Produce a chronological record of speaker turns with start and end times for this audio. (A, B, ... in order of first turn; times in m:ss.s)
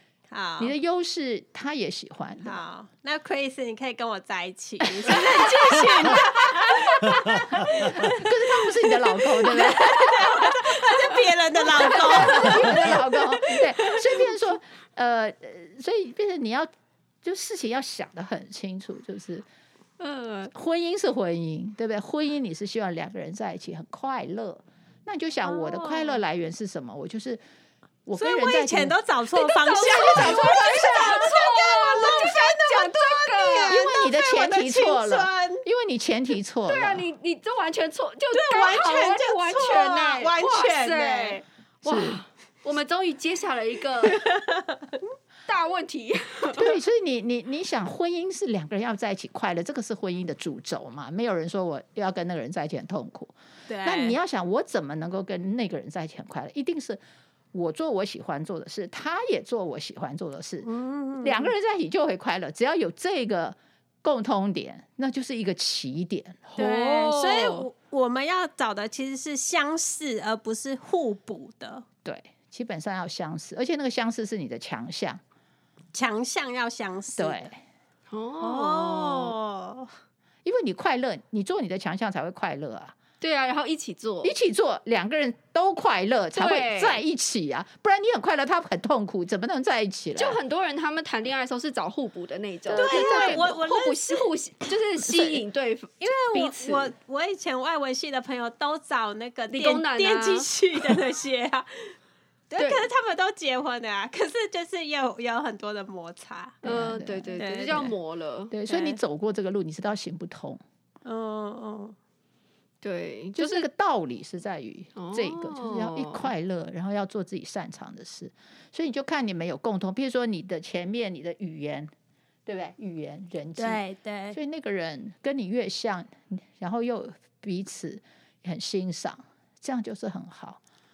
0:00.3-0:00.7 A
0:00.6-0:02.6 B
0:02.4-0:13.0 A
0:04.8-0:10.5 B
0:11.7-0:16.7 B
0:11.9-0:12.9 C
0:17.2-0:19.4 B
0:20.0-0:20.5 C
0:20.5-0:27.4 B
0:25.4-0:26.2 A
0:28.1-0:29.0 B
0:28.2-0:35.6 A
0:29.4-0:33.9 C
0:29.8-0:31.2 B
0:33.7-0:37.1 B
0:36.7-0:44.3 C
0:38.3-0:41.4 A
0:41.8-0:42.2 B
0:44.1-0:44.9 A
0:45.5-0:46.8 C
0:46.5-0:57.0 B
0:53.7-0:54.2 A
0:57.5-1:00.7 B
1:00.6-1:01.5 A
1:01.2-1:06.5 B
1:06.5-1:07.7 C
1:06.6-1:11.8 A
1:12.0-1:15.2 B
1:15.9-1:17.4 A
1:17.2-1:17.6 B
1:18.1-1:19.4 C
1:18.4-1:19.9 A
1:20.4-1:23.0 B
1:23.2-1:24.4 C
1:24.2-1:30.4 B
1:26.3-1:27.0 C
1:30.2-1:36.9 C
1:32.7-1:33.6 B
1:32.7-1:34.2 A
1:35.1-1:35.4 B
1:36.0-1:41.9 A
1:39.5-1:41.0 C
1:42.5-1:46.6 A
1:42.6-1:42.9 C
1:46.6-1:47.9 B
1:46.6-1:48.6 C
1:47.4-1:47.9 A
1:48.5-1:50.6 B
1:51.0-1:52.0 A
1:52.8-1:53.7 C
1:53.4-2:01.9 B
1:55.0-1:56.3 C
2:02.5-2:03.8 B
2:03.6-2:04.4 A
2:04.3-2:10.6 B